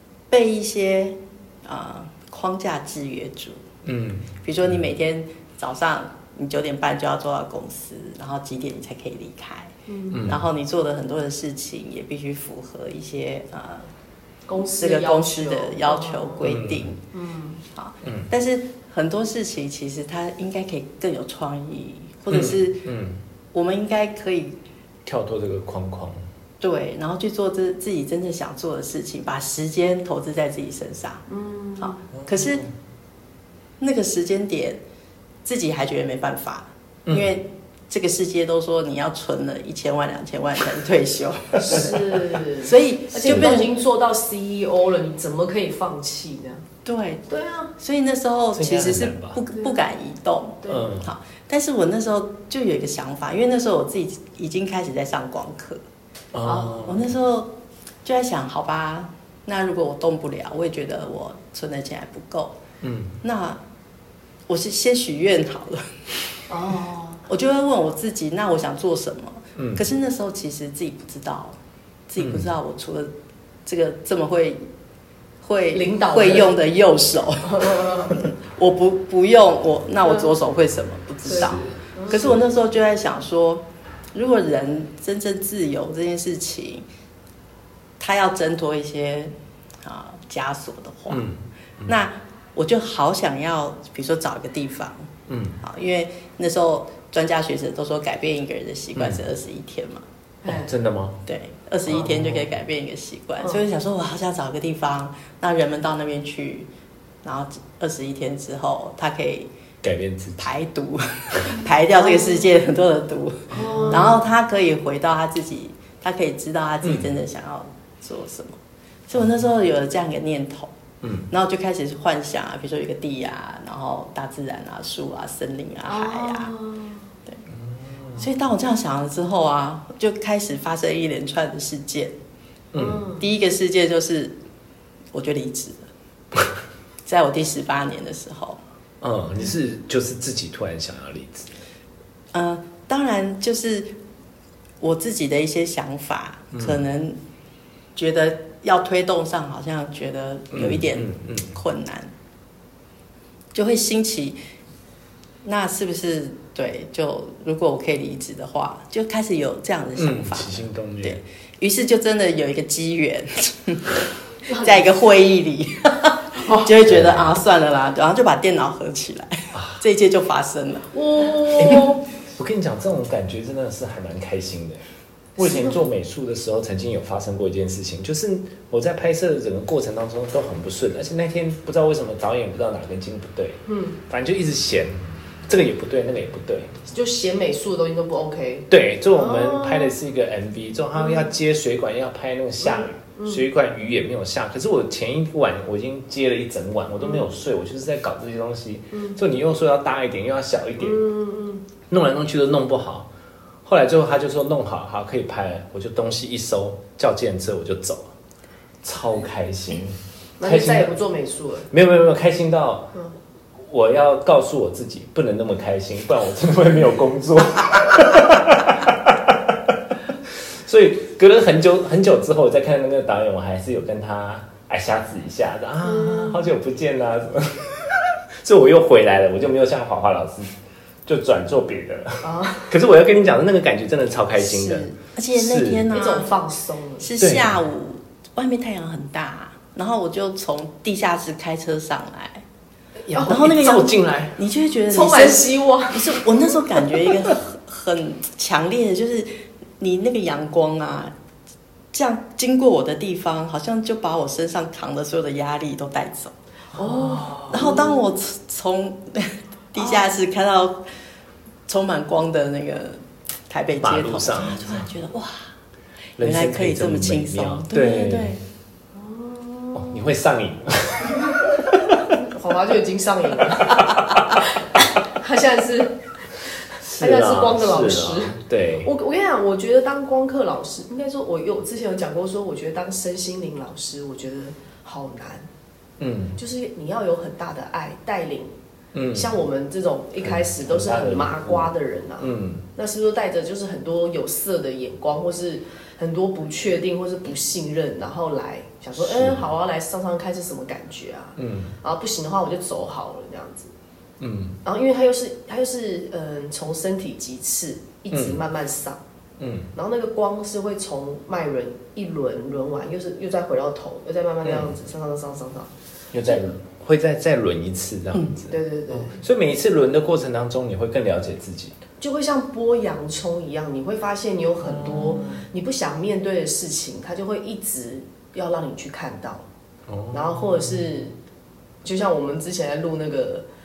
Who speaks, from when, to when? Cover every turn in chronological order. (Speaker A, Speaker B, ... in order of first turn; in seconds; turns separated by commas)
Speaker A: 0.3-3.6, Speaker B: 3.8-4.8, Speaker A: 4.4-13.9, Speaker C: 9.9-10.3, Speaker B: 10.1-10.4, Speaker C: 14.5-16.4, Speaker A: 14.6-17.0, Speaker B: 16.4-16.9, Speaker C: 17.1-17.6, Speaker A: 17.7-22.9, Speaker B: 22.3-23.2, Speaker A: 23.5-24.6, Speaker B: 25.1-26.2, Speaker A: 26.6-31.2, Speaker C: 31.3-32.0, Speaker A: 31.8-32.6, Speaker B: 32.1-32.7, Speaker A: 33.8-34.8, Speaker A: 35.5-41.9, Speaker B: 37.1-37.3, Speaker B: 41.6-42.0, Speaker C: 41.6-46.6, Speaker A: 42.6-43.8, Speaker B: 43.2-43.5, Speaker A: 46.9-47.2, Speaker C: 47.3-47.7, Speaker A: 47.8-55.8, Speaker B: 48.5-49.4, Speaker B: 50.7-51.1, Speaker B: 56.3-57.1, Speaker C: 56.5-56.8, Speaker A: 56.7-57.5, Speaker A: 58.0-62.6, Speaker B: 62.8-63.1, Speaker A: 63.2-63.6, Speaker A: 64.5-66.0, Speaker C: 66.5-67.2, Speaker A: 67.3-71.6, Speaker B: 69.6-69.8, Speaker A: 72.1-73.1, Speaker B: 72.2-72.5, Speaker A: 73.7-74.7, Speaker A: 75.4-86.8, Speaker C: 75.7-76.5, Speaker C: 77.4-78.2, Speaker B: 81.3-82.4, Speaker C: 81.3-82.3, Speaker A: 88.0-91.3, Speaker B: 91.1-92.0, Speaker A: 91.9-95.1, Speaker B: 95.3-95.6, Speaker A: 95.6-100.0, Speaker B: 99.0-99.2, Speaker C: 100.4-100.7, Speaker B: 100.5-101.2, Speaker A: 101.3-106.7, Speaker B: 101.9-102.5, Speaker A: 107.2-109.5, Speaker B: 109.8-110.5, Speaker A: 110.4-120.7, Speaker C: 112.0-112.5, Speaker B: 113.5-114.2, Speaker C: 113.5-114.2, Speaker B: 116.8-117.1, Speaker B: 121.0-121.3, Speaker A: 121.3-126.5, Speaker C: 125.8-127.1, Speaker B: 127.5-128.3, Speaker A: 128.2-132.2, Speaker B: 132.7-133.1, Speaker C: 132.8-133.2, Speaker A: 133.2-134.3, Speaker A: 135.1-135.9, Speaker A: 137.1-138.6, Speaker B: 139.0-141.5, Speaker A: 142.3-143.9, Speaker A: 144.8-147.2, Speaker B: 146.5-146.8, Speaker A: 148.0-152.1, Speaker B: 150.5-151.5, Speaker A: 153.5-154.4, Speaker A: 155.4-164.0, Speaker B: 160.0-161.2, Speaker C: 164.5-164.9, Speaker A: 164.6-170.9, Speaker C: 166.4-166.8, Speaker B: 166.9-167.3, Speaker B: 169.5-169.8, Speaker C: 170.9-172.0, Speaker B: 171.6-174.8, Speaker B: 175.4-186.8, Speaker C: 175.4-175.8, Speaker C: 183.7-184.0, Speaker C: 186.9-189.9, Speaker B: 188.7-201.0, Speaker C: 191.0-191.3, Speaker C: 192.6-193.4, Speaker C: 200.8-201.7, Speaker B: 201.9-203.1, Speaker B: 203.7-208.1, Speaker B: 208.8-210.9, Speaker C: 210.4-211.7, Speaker B: 211.7-212.9, Speaker B: 213.6-219.7, Speaker B: 220.3-230.5, Speaker C: 225.8-226.5, Speaker B: 231.1-235.9, Speaker C: 232.2-232.7, Speaker A: 234.4-236.3, Speaker C: 235.9-237.1, Speaker A: 237.0-242.4, Speaker B: 237.2-237.6, Speaker B: 243.1-244.4, Speaker C: 243.1-243.4, Speaker A: 243.2-251.1, Speaker C: 244.9-246.5, Speaker A: 251.9-256.3, Speaker C: 256.8-258.0, Speaker B: 256.8-257.6, Speaker A: 257.5-260.8, Speaker C: 259.8-260.0, Speaker A: 261.7-265.5, Speaker B: 263.8-264.9, Speaker B: 266.2-268.4, Speaker A: 266.2-268.4, Speaker C: 268.9-270.1, Speaker B: 269.7-271.8, Speaker C: 272.1-285.5, Speaker B: 276.8-278.9, Speaker B: 286.0-286.4, Speaker C: 286.4-288.5, Speaker B: 288.9-289.3, Speaker C: 289.1-303.7, Speaker B: 290.2-292.6, Speaker B: 299.0-299.5, Speaker B: 301.4-301.8, Speaker B: 304.2-304.6, Speaker C: 304.6-309.0, Speaker B: 308.1-308.4, Speaker B: 309.4-309.7, Speaker C: 309.8-315.7, Speaker B: 314.4-314.8, Speaker B: 316.1-321.8, Speaker C: 318.5-319.2, Speaker C: 322.0-329.4, Speaker B: 324.6-325.4, Speaker B: 329.9-330.9, Speaker C: 330.1-331.1, Speaker C: 331.8-333.5